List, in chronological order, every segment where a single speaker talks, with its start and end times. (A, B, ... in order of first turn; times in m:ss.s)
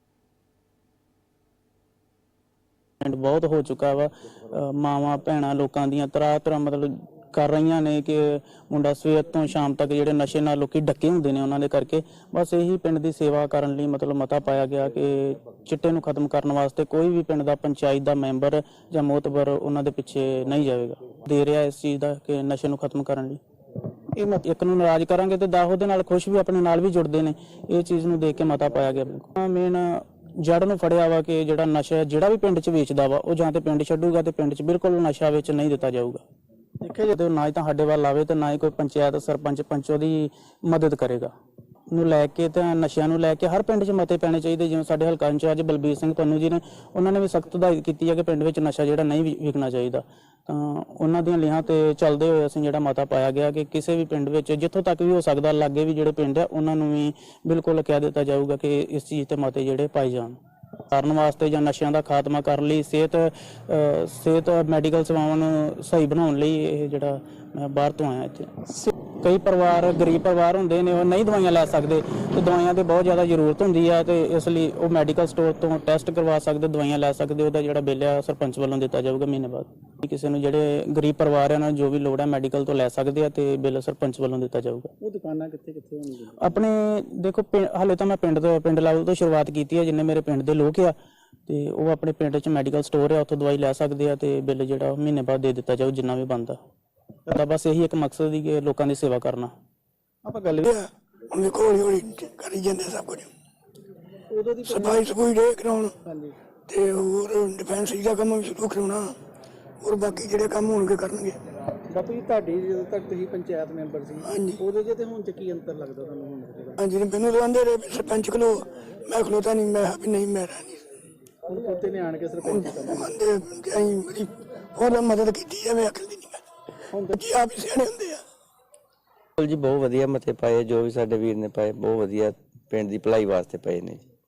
0:03.0-0:23.4 A
0:24.1-0:36.2 A
0:36.8-0:41.3 A
0:41.9-1:00.4 A
1:00.9-1:24.9 A
1:25.0-1:26.6 B
1:26.4-1:30.9 A
1:31.5-1:36.6 A
1:37.3-1:39.5 A
1:40.2-1:40.7 B
1:40.6-1:43.3 C
1:44.3-1:45.1 B
1:44.7-1:45.9 C
1:46.0-1:46.4 B
1:46.7-1:49.2 C
1:49.8-1:51.4 C
1:51.9-1:56.8 B
1:54.2-1:54.6 C
1:56.8-2:00.8 C
2:01.5-2:03.2 B
2:02.5-2:06.4 C
2:06.9-2:07.2 B
2:07.2-2:08.2 C
2:09.4-2:14.0 D